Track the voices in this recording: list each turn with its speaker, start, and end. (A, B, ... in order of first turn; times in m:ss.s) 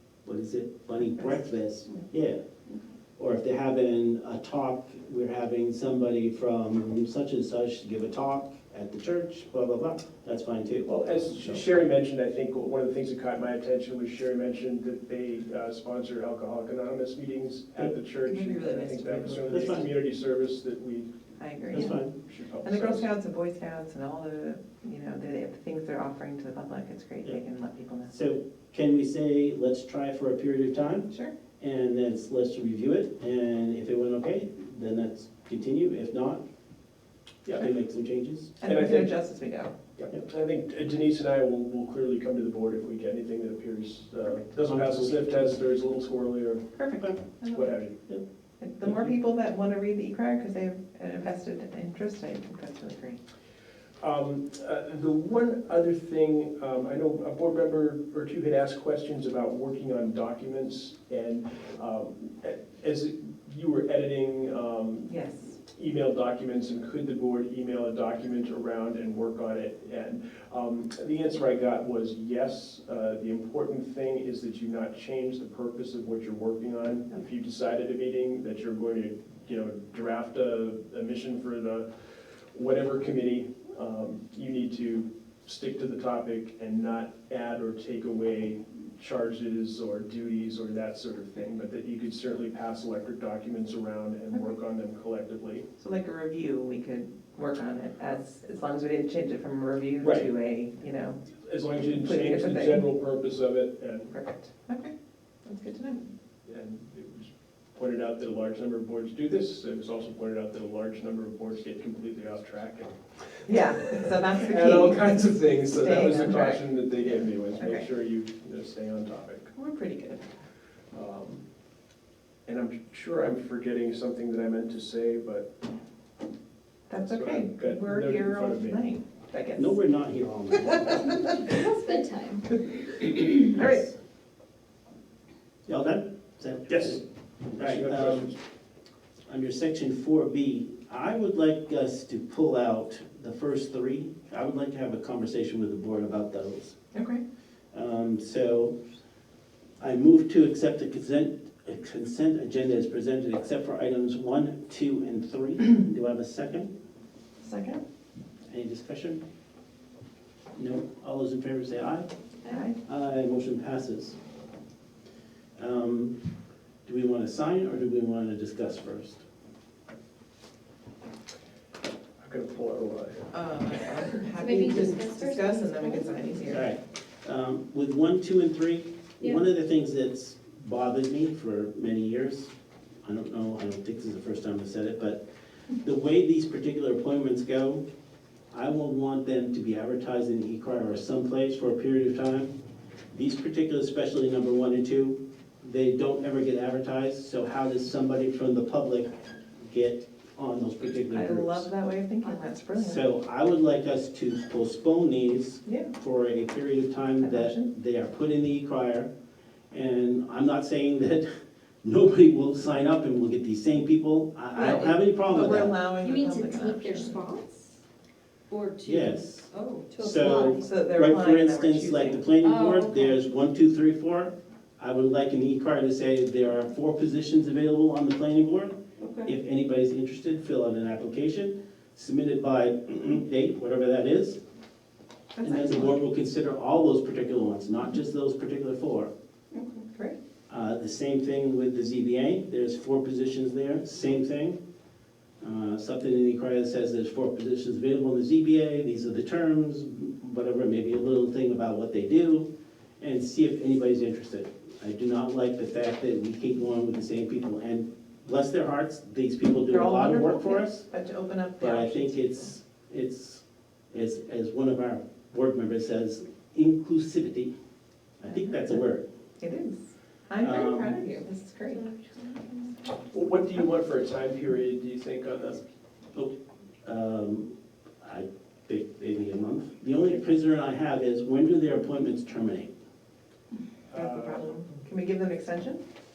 0:00.2-0:02.4 A
0:03.2-0:10.9 A
0:10.8-0:21.1 B
0:18.2-0:19.8 C
0:19.5-0:19.8 A
0:21.4-0:22.0 C
0:21.7-0:22.1 A
0:21.8-0:23.0 B
0:22.6-0:28.1 C
0:28.1-0:36.4 A
0:37.5-0:38.5 A
0:38.6-0:39.7 C
0:38.6-0:39.1 B
0:40.0-0:46.7 B
0:44.6-0:45.2 A
0:46.8-0:47.8 C
0:47.5-0:48.0 B
0:48.6-0:53.2 C
0:54.0-1:05.1 B
1:05.1-1:05.5 C
1:05.7-1:35.6 B
1:35.8-1:41.2 C
1:40.0-1:40.3 B
1:41.4-1:44.1 B
1:41.9-1:42.8 C
1:44.1-1:44.9 C
1:45.4-1:46.1 C
1:46.5-1:53.0 B
1:53.4-1:56.6 C
1:53.8-1:59.5 B
1:57.6-1:57.8 C
1:59.5-2:00.3 C
2:00.9-2:01.4 B
2:02.4-2:05.5 B
2:06.9-2:09.8 C
2:07.0-2:08.9 B
2:09.6-2:11.2 A
2:10.6-2:11.4 C
2:11.2-2:12.6 D
2:13.2-2:13.9 C
2:15.7-2:17.0 A
2:17.5-2:18.3 B
2:17.6-2:18.3 A
2:19.3-2:26.8 A
2:26.9-2:27.2 C
2:27.7-2:28.8 A
2:29.8-2:36.7 A
2:37.4-2:37.8 C
2:38.5-2:39.2 A
2:40.6-2:42.1 A
2:42.5-2:42.8 C
2:42.8-2:44.2 A
2:45.6-2:46.2 A
2:46.8-2:49.2 A
2:52.2-2:53.3 B
2:53.3-2:56.7 C
2:54.4-2:56.6 D
2:56.5-3:02.5 A
3:03.0-3:05.2 A
3:05.8-3:07.8 A
3:08.5-3:12.5 A
3:13.1-3:19.1 A
3:19.7-3:21.7 A
3:21.1-3:23.0 C
3:22.8-3:29.1 A
3:25.6-3:25.9 C
3:27.2-3:27.7 C
3:29.7-3:31.3 A
3:31.8-3:35.8 A
3:34.5-3:37.2 C
3:36.0-3:37.8 D
3:38.5-3:40.7 D
3:38.8-3:54.4 A
3:40.6-3:42.3 C
3:42.4-3:43.2 D
3:49.0-3:49.3 D
3:55.3-3:56.0 C
3:55.4-3:59.1 A
3:59.5-4:00.2 C
4:00.5-4:04.6 A
4:05.4-4:12.5 A
4:13.0-4:20.9 A
4:19.7-4:22.4 C
4:21.6-4:27.5 A
4:28.2-4:29.0 A
4:28.2-4:28.8 C
4:29.4-4:32.0 C
4:30.4-4:31.1 A
4:31.8-4:32.7 D
4:33.1-4:35.6 B
4:36.8-4:42.7 A
4:43.9-4:44.5 B
4:43.9-4:45.8 C